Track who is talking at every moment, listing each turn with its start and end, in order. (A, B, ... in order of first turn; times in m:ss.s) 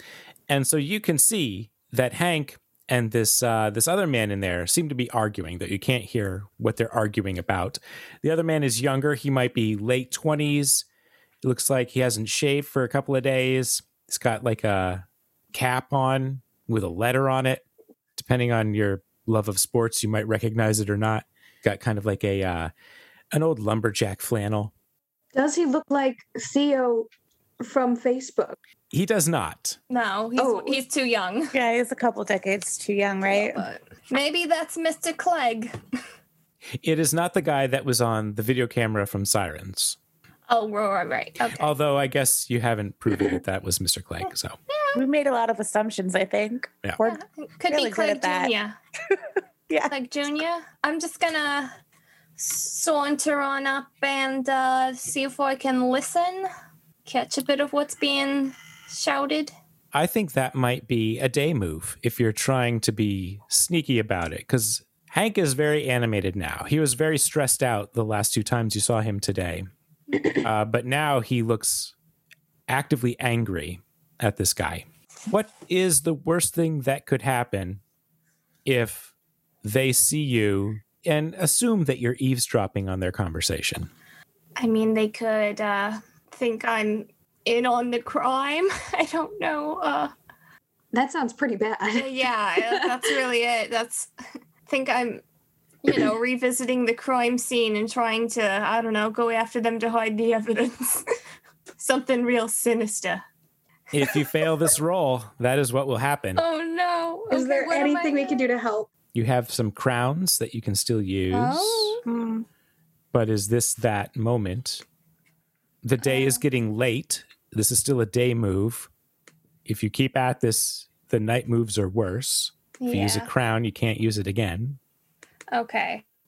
0:00.5-0:10.8 A
0:11.4-0:17.6 A
0:18.2-0:22.7 A
0:23.3-0:24.7 A
0:25.3-0:27.1 B
0:27.6-0:28.6 B
0:28.9-0:29.8 A
0:29.9-0:31.6 C
0:30.4-0:30.8 B
0:31.5-0:33.7 D
0:33.3-0:35.8 C
0:36.8-0:40.0 A
0:40.5-0:41.7 C
0:41.5-0:44.6 A
0:44.7-0:45.0 C
0:45.0-0:48.5 D
0:47.0-0:48.8 C
0:49.9-0:51.8 C
0:52.4-0:56.5 C
0:57.0-0:59.5 C
0:59.9-1:09.7 A
1:10.3-1:12.0 A
1:12.7-1:17.8 A
1:18.6-1:19.1 A
1:19.6-1:23.9 A
1:24.6-1:30.1 C
1:30.9-1:33.1 B
1:31.9-1:34.1 C
1:34.7-1:35.2 C
1:35.8-1:41.1 C
1:41.8-1:43.2 C
1:43.9-1:46.4 A
1:46.4-1:48.5 C
1:47.3-1:48.9 B
1:49.1-1:52.0 A
1:51.3-1:52.0 C
1:52.1-1:52.5 D
1:53.1-1:54.8 A
1:55.8-1:58.9 A
1:56.0-1:56.4 C
1:59.7-2:04.8 A
2:02.8-2:03.3 C
2:05.5-2:06.0 C